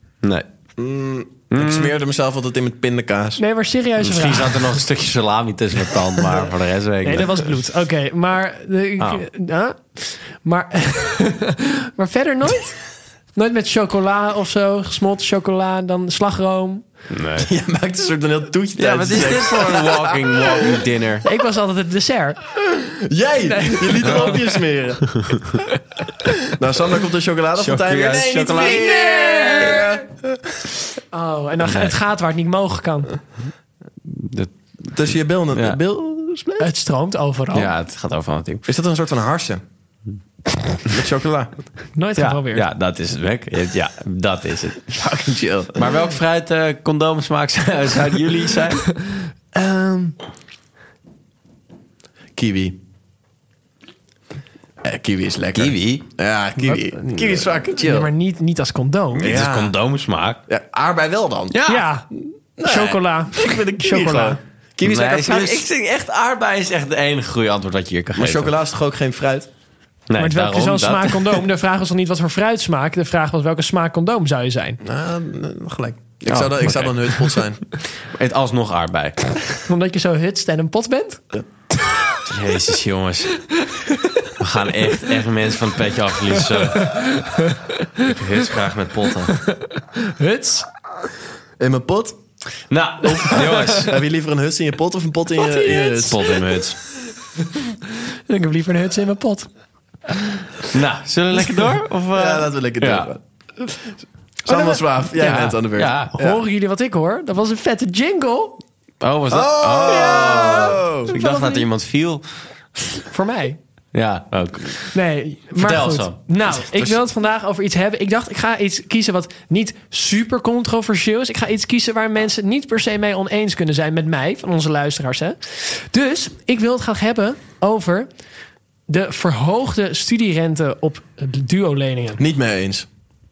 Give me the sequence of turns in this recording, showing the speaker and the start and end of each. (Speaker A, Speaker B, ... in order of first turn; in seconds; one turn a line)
Speaker A: 0.8-3.4
Speaker B: 1.5-1.9
Speaker C: 3.4-4.8
Speaker B: 4.0-7.5
Speaker C: 7.0-12.8
Speaker B: 9.0-9.2
Speaker C: 13.3-16.8
Speaker B: 17.1-17.5
Speaker A: 17.4-20.8
Speaker B: 18.8-21.2
Speaker C: 21.2-22.4
Speaker A: 22.7-25.4
Speaker C: 23.4-24.4
Speaker A: 26.5-30.6
Speaker B: 27.6-29.8
Speaker C: 28.5-30.0
Speaker C: 31.1-33.1
Speaker B: 31.6-31.9
Speaker B: 34.1-34.5
Speaker A: 34.9-36.7
Speaker B: 35.5-35.8
Speaker C: 36.6-37.7
Speaker B: 37.5-38.6
Speaker A: 38.6-39.6
Speaker A: 40.9-41.5
Speaker C: 42.0-42.6
Speaker B: 42.2-45.0
Speaker A: 44.9-45.9
Speaker B: 45.8-48.9
Speaker C: 49.5-50.1
Speaker A: 52.4-52.8
Speaker A: 54.8-58.1
Speaker B: 55.5-56.0
Speaker C: 56.6-59.4
Speaker A: 59.2-59.7
Speaker B: 59.2-60.4
Speaker A: 60.5-61.6
Speaker B: 61.5-61.9
Speaker C: 61.6-62.1
Speaker A: 62.6-65.6
Speaker C: 62.6-64.4
Speaker B: 64.8-68.5
Speaker A: 68.1-69.5
Speaker B: 70.1-71.4
Speaker C: 70.2-74.8
Speaker A: 74.8-77.6
Speaker B: 76.3-77.4
Speaker B: 78.1-79.6
Speaker C: 79.7-81.2
Speaker B: 82.2-83.4
Speaker C: 83.7-83.9
Speaker B: 84.4-87.2
Speaker C: 86.7-88.1
Speaker B: 88.0-89.3
Speaker C: 89.3-90.7
Speaker A: 91.6-92.2
Speaker B: 92.7-94.0
Speaker C: 93.2-93.8
Speaker A: 93.3-96.3
Speaker C: 95.4-96.2
Speaker B: 96.0-96.8
Speaker C: 98.3-99.5
Speaker B: 100.7-103.1
Speaker A: 102.1-106.4
Speaker C: 104.5-105.5
Speaker B: 105.2-106.1
Speaker C: 106.1-108.6
Speaker B: 109.0-112.2
Speaker A: 109.3-111.1
Speaker C: 109.8-111.7
Speaker B: 112.8-113.0
Speaker C: 113.1-113.6
Speaker B: 113.9-115.0
Speaker C: 114.9-128.1
Speaker B: 115.6-116.2
Speaker C: 128.9-132.2
Speaker A: 132.2-132.9